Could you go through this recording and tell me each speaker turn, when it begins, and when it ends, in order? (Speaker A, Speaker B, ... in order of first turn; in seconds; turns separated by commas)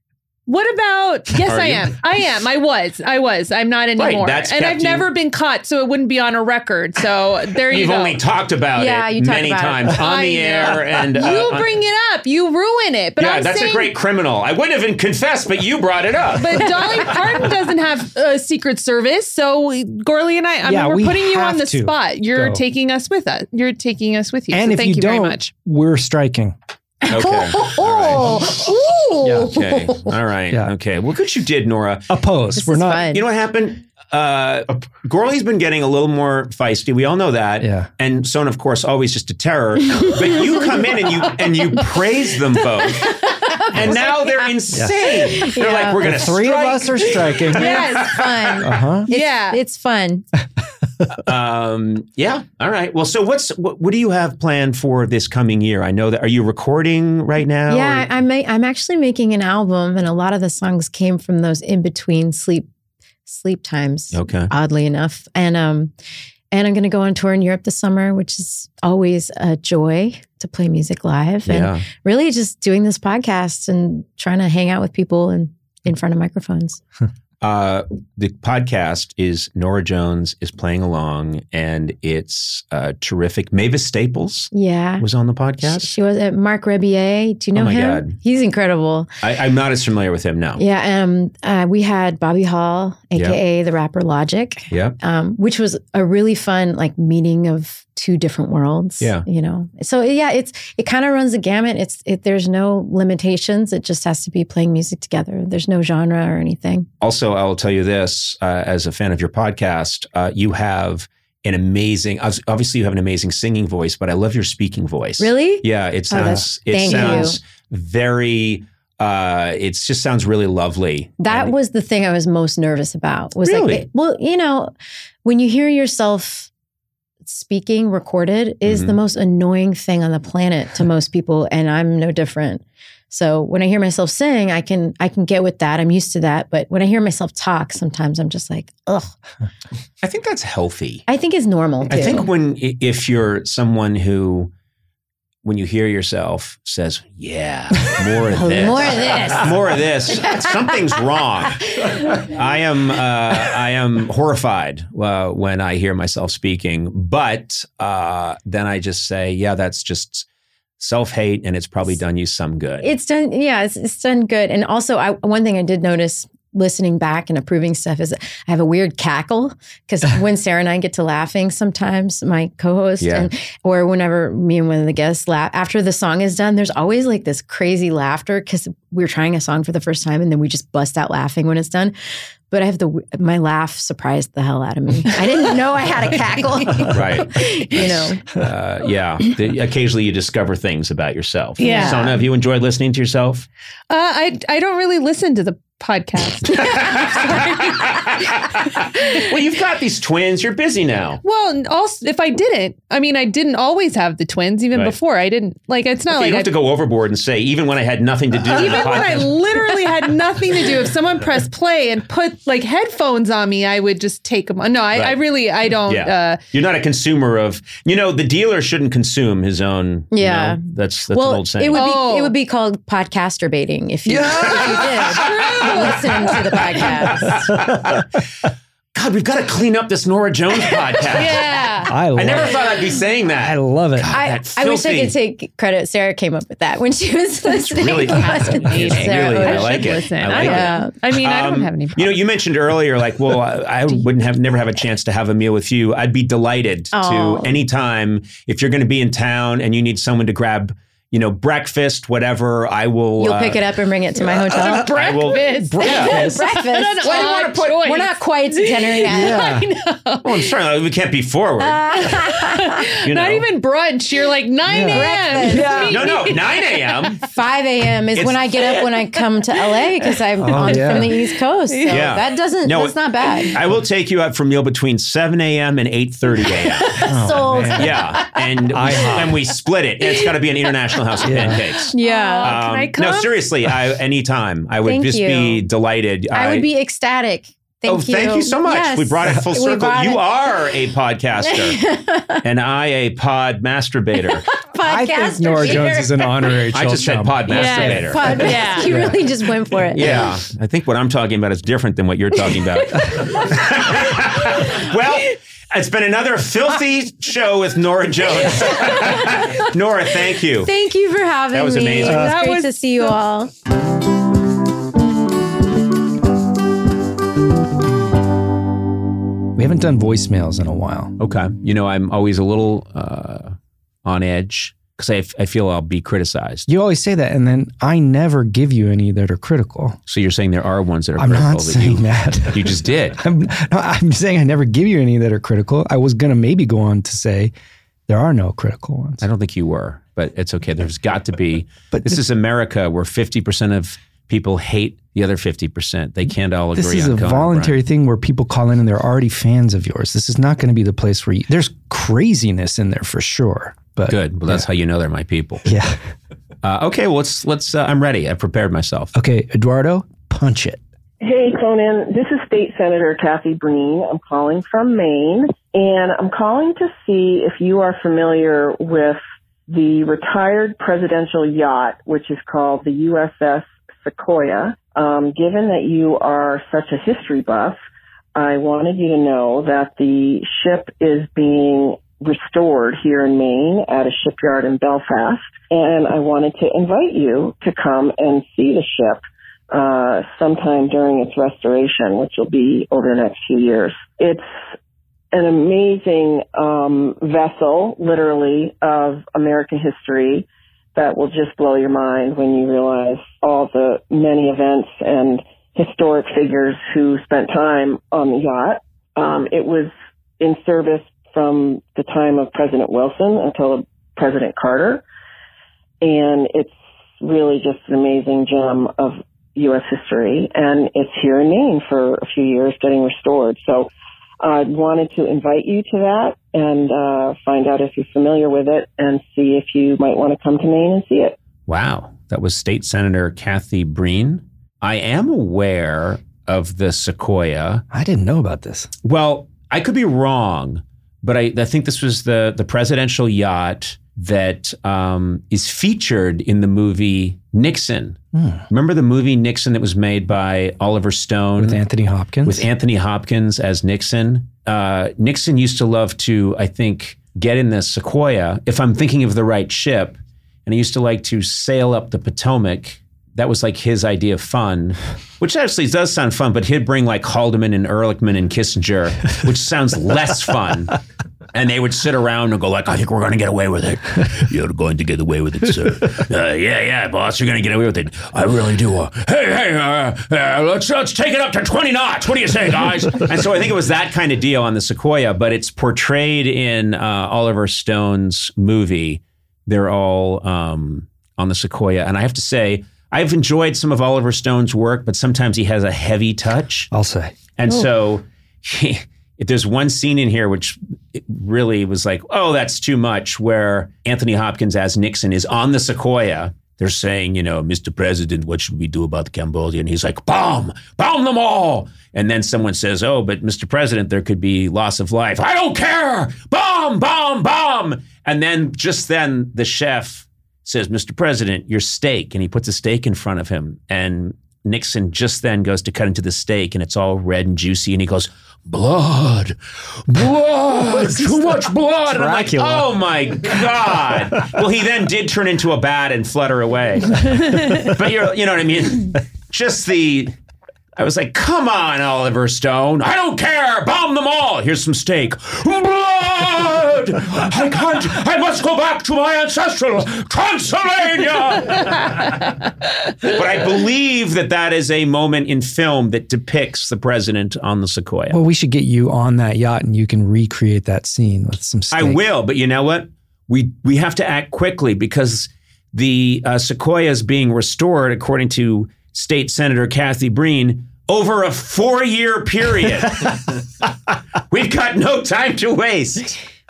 Speaker A: 0.5-8.2, Speaker B: 1.5-2.0, Speaker B: 4.0-5.1, Speaker B: 7.7-11.7, Speaker C: 8.8-10.0, Speaker A: 10.0-13.9, Speaker B: 13.2-17.5, Speaker A: 16.4-25.5, Speaker D: 20.6-22.6, Speaker D: 24.5-26.6, Speaker C: 27.0-29.9, Speaker B: 27.1-28.5, Speaker D: 29.2-29.6, Speaker B: 29.4-32.2, Speaker D: 32.1-33.1, Speaker C: 32.5-33.2, Speaker B: 33.1-48.2, Speaker D: 37.6-37.9, Speaker C: 43.0-46.3, Speaker D: 44.7-45.0, Speaker D: 46.0-47.7, Speaker A: 47.5-49.6, Speaker C: 47.5-50.2, Speaker D: 48.6-49.1, Speaker B: 51.2-58.1, Speaker C: 57.7-62.7, Speaker C: 63.3-65.9, Speaker B: 64.1-64.5, Speaker C: 66.5-76.8, Speaker B: 71.5-71.8, Speaker B: 77.4-85.9, Speaker C: 84.5-85.0, Speaker C: 85.6-89.1, Speaker B: 87.5-88.2, Speaker B: 89.2-90.6, Speaker C: 90.6-106.9, Speaker B: 94.7-95.0, Speaker B: 99.0-99.2, Speaker B: 107.0-121.5, Speaker C: 115.2-117.4, Speaker C: 121.2-124.7, Speaker B: 123.5-123.9, Speaker C: 125.2-126.5, Speaker C: 127.3-139.1, Speaker B: 128.7-129.0, Speaker B: 140.0-141.1, Speaker C: 141.1-142.3, Speaker B: 141.9-144.5, Speaker B: 145.4-160.3, Speaker C: 148.3-149.5, Speaker B: 160.8-162.9, Speaker C: 162.8-181.9, Speaker B: 173.0-173.3, Speaker C: 182.5-188.2, Speaker B: 186.9-193.5, Speaker A: 191.6-192.1, Speaker C: 191.6-192.1, Speaker A: 193.9-198.0, Speaker B: 196.5-201.2, Speaker A: 201.2-206.5, Speaker B: 206.1-209.5, Speaker A: 208.4-216.4, Speaker B: 215.9-221.8, Speaker C: 220.1-227.4, Speaker A: 221.7-222.3, Speaker D: 224.1-225.0, Speaker B: 224.6-228.1, Speaker A: 225.2-226.0, Speaker B: 228.9-235.1, Speaker A: 231.1-231.9, Speaker D: 231.9-232.7, Speaker D: 233.4-234.1, Speaker C: 234.1-240.9, Speaker B: 237.6-253.6, Speaker A: 238.0-242.2, Speaker C: 246.9-247.6, Speaker C: 253.2-255.0, Speaker A: 254.5-260.6, Speaker B: 254.6-256.4, Speaker C: 255.8-259.6, Speaker B: 257.0-257.8, Speaker D: 259.1-259.7, Speaker B: 260.2-262.1, Speaker C: 261.6-262.8, Speaker A: 262.2-267.2, Speaker B: 263.0-263.5, Speaker D: 264.7-266.1, Speaker C: 264.8-265.9, Speaker B: 265.9-267.2, Speaker C: 267.2-273.6, Speaker B: 268.2-268.7, Speaker D: 270.4-271.2, Speaker A: 270.7-271.0, Speaker A: 271.7-272.1, Speaker B: 271.9-277.1, Speaker A: 276.4-277.1, Speaker D: 277.1-278.1, Speaker C: 277.1-278.0, Speaker B: 277.8-286.7, Speaker D: 278.7-279.4, Speaker A: 279.0-279.3, Speaker A: 280.1-280.4, Speaker A: 281.2-283.4, Speaker D: 281.2-281.6, Speaker C: 281.9-282.6, Speaker C: 284.8-285.6, Speaker C: 286.3-290.3, Speaker B: 287.9-291.8, Speaker C: 291.5-292.4, Speaker B: 292.4-294.6, Speaker C: 294.5-296.7, Speaker D: 294.8-299.2, Speaker B: 296.7-298.6, Speaker A: 297.5-298.9, Speaker C: 297.8-300.3, Speaker B: 299.9-310.7, Speaker C: 310.6-313.5, Speaker B: 311.5-312.3, Speaker A: 312.0-313.2, Speaker D: 319.6-321.1, Speaker B: 321.2-326.7, Speaker D: 326.7-330.0, Speaker B: 330.1-333.2, Speaker D: 331.2-337.5, Speaker D: 338.1-339.2, Speaker B: 339.2-347.8, Speaker D: 341.9-342.2, Speaker D: 346.8-354.6, Speaker B: 354.1-355.7, Speaker D: 355.6-356.0, Speaker B: 356.6-359.1, Speaker D: 359.1-360.8, Speaker E: 361.2-377.8, Speaker E: 378.4-394.4, Speaker E: 395.3-415.0, Speaker E: 416.0-423.9, Speaker E: 424.4-431.4, Speaker B: 431.7-437.9, Speaker D: 437.9-438.9, Speaker B: 439.0-451.8, Speaker D: 448.3-448.6, Speaker D: 451.6-452.7, Speaker B: 452.4-471.0, Speaker B: 471.5-496.9, Speaker D: 496.9-497.3, Speaker B: 497.6-540.3, Speaker D: 532.1-534.5, Speaker B: 541.0-552.5, Speaker B: 553.2-558.4, Speaker D: 558.3-562.2, Speaker B: 561.9-573.6, Speaker B: 574.5-576.4